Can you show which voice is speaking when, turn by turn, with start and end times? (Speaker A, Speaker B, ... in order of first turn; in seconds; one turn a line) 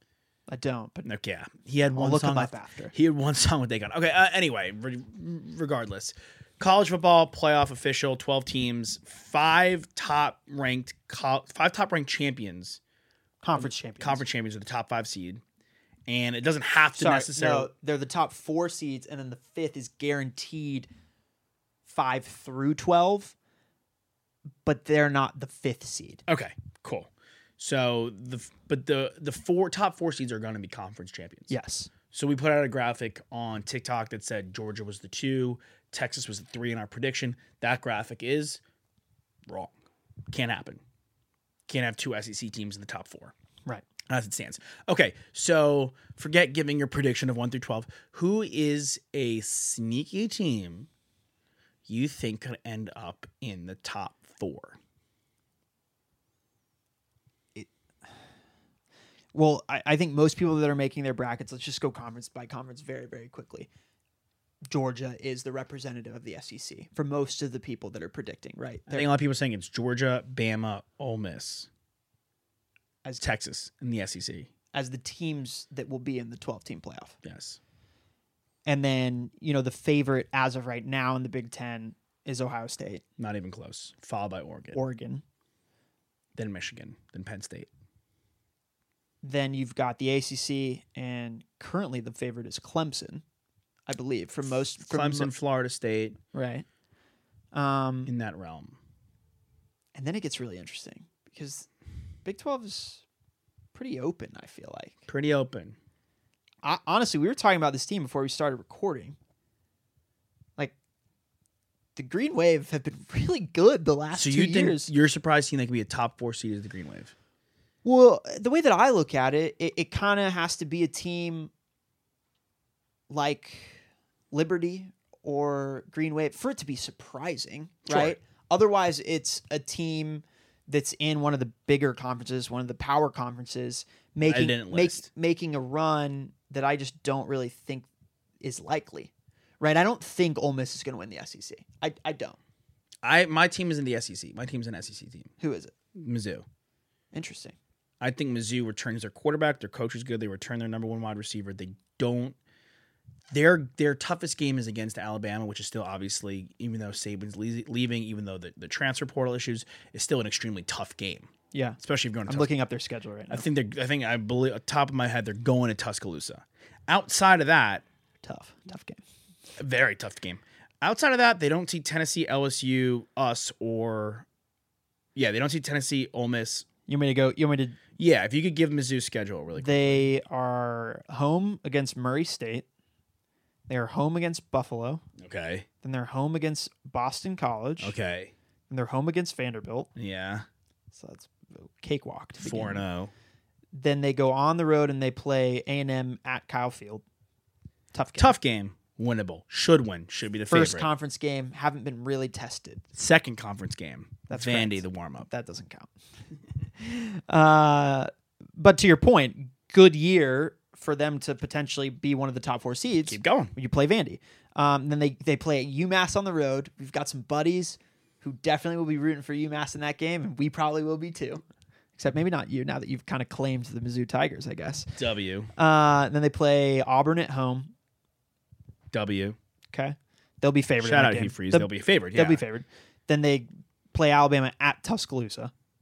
Speaker A: 0.5-1.1
Speaker B: 1.1-12.8
Speaker A: 1.9-2.9
Speaker A: 13.4-14.2
Speaker B: 13.5-15.4
Speaker B: 16.1-17.7
Speaker A: 17.0-20.9
Speaker A: 21.9-23.3
Speaker A: 24.6-26.2
Speaker B: 26.3-31.5
Speaker A: 31.5-31.9
Speaker B: 32.1-38.6
Speaker B: 39.5-39.8
Speaker B: 40.3-40.8
Speaker B: 41.7-43.3
Speaker B: 44.1-50.9
Speaker B: 51.9-54.8
Speaker A: 59.3-63.7
Speaker A: 64.7-69.1
Speaker B: 68.9-71.7
Speaker B: 73.2-74.5
Speaker A: 74.7-77.2
Speaker B: 77.2-77.6
Speaker A: 78.7-83.0
Speaker B: 83.2-84.8
Speaker A: 84.7-85.2
Speaker B: 86.3-87.7
Speaker A: 89.2-93.2
Speaker A: 93.9-95.3
Speaker B: 94.8-96.2
Speaker A: 96.3-96.7
Speaker A: 97.5-98.1
Speaker B: 98.1-98.8
Speaker A: 100.0-101.7
Speaker A: 102.2-103.0
Speaker A: 103.7-105.1
Speaker B: 105.1-105.8
Speaker A: 106.6-109.2
Speaker A: 112.0-114.9
Speaker B: 114.1-117.1
Speaker A: 117.8-121.5
Speaker A: 123.1-137.9
Speaker B: 127.9-128.2
Speaker B: 134.3-135.1
Speaker A: 138.4-142.4
Speaker B: 143.0-145.3
Speaker A: 145.4-145.7
Speaker B: 145.9-146.5
Speaker A: 147.1-147.6
Speaker B: 148.0-152.4
Speaker B: 153.3-162.5
Speaker A: 161.5-163.5
Speaker B: 163.3-167.8
Speaker A: 168.2-169.0
Speaker B: 169.6-174.3
Speaker B: 175.2-176.7
Speaker A: 176.9-177.8
Speaker B: 178.0-180.1
Speaker A: 179.6-182.7
Speaker A: 183.7-185.0
Speaker B: 185.2-185.7
Speaker A: 185.8-188.0
Speaker B: 187.8-188.3
Speaker A: 188.7-189.9
Speaker B: 190.0-190.5
Speaker A: 190.9-192.8
Speaker B: 192.4-193.1
Speaker A: 193.7-197.0
Speaker A: 197.9-198.3
Speaker B: 198.2-200.9
Speaker A: 200.5-202.8
Speaker B: 202.9-205.3
Speaker A: 204.3-205.9
Speaker A: 206.8-221.4
Speaker B: 213.1-213.5
Speaker A: 222.0-224.9
Speaker B: 225.0-225.5
Speaker A: 225.6-227.7
Speaker B: 228.9-229.4
Speaker A: 229.7-235.5
Speaker B: 230.8-232.4